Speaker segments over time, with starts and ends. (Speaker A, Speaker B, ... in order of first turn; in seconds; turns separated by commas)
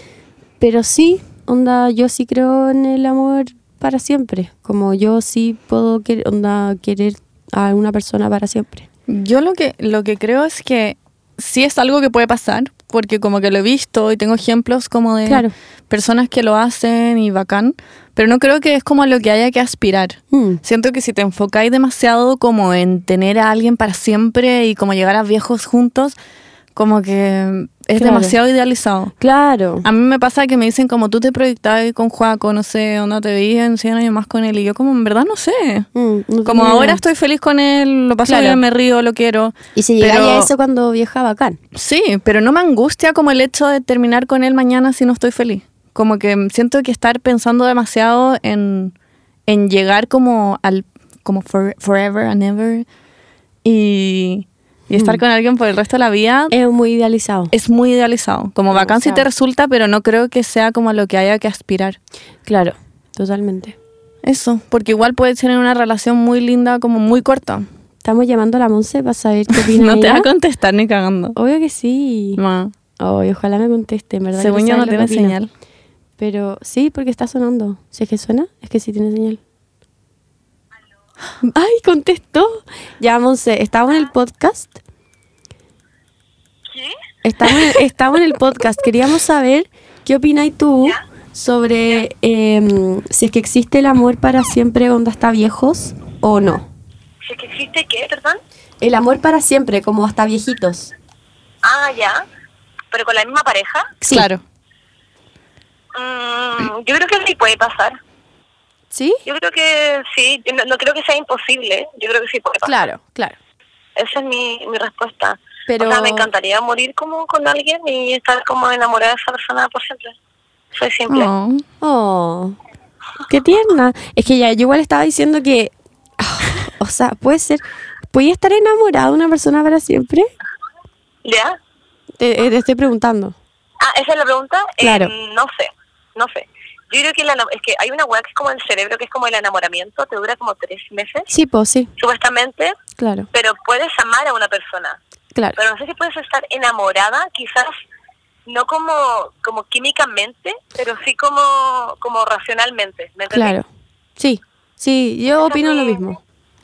Speaker A: 0.6-8.9, Speaker B: 9.1-26.1, Speaker A: 15.2-15.5, Speaker A: 20.3-20.6, Speaker B: 26.7-29.1, Speaker A: 27.9-28.4, Speaker A: 29.2-29.9, Speaker B: 29.8-35.9, Speaker A: 35.9-37.0, Speaker B: 36.4-40.5, Speaker A: 38.2-38.6, Speaker A: 39.7-41.6, Speaker B: 41.7-48.9, Speaker B: 49.5-52.9, Speaker B: 53.6-56.5, Speaker A: 54.9-55.2, Speaker A: 56.5-57.5, Speaker B: 57.5-62.0, Speaker A: 58.7-59.2, Speaker A: 62.5-63.8, Speaker B: 64.2-67.7, Speaker A: 68.0-70.3, Speaker B: 69.5-71.3, Speaker A: 71.3-72.4, Speaker B: 72.4-72.7, Speaker A: 73.0-75.4, Speaker B: 74.3-75.5, Speaker A: 76.2-79.4, Speaker A: 81.4-84.8, Speaker A: 87.2-96.7, Speaker C: 97.2-98.4, Speaker A: 98.8-100.9, Speaker C: 101.6-102.2, Speaker C: 102.9-103.9, Speaker A: 104.0-104.3, Speaker B: 104.1-104.4, Speaker C: 105.9-108.0, Speaker A: 108.9-109.2, Speaker C: 109.2-112.7, Speaker A: 112.6-113.4, Speaker C: 114.0-120.1, Speaker A: 115.7-116.3, Speaker C: 120.7-121.3, Speaker B: 121.1-121.6, Speaker A: 121.8-122.6, Speaker A: 123.3-130.3, Speaker C: 131.2-131.6, Speaker A: 132.2-133.3, Speaker C: 133.8-141.3, Speaker A: 134.8-135.1, Speaker A: 141.3-141.9, Speaker C: 142.0-142.7, Speaker A: 143.0-143.3, Speaker C: 143.3-145.0, Speaker C: 145.5-147.7, Speaker C: 148.4-153.6, Speaker A: 153.3-153.6, Speaker A: 154.2-156.2, Speaker C: 155.4-156.1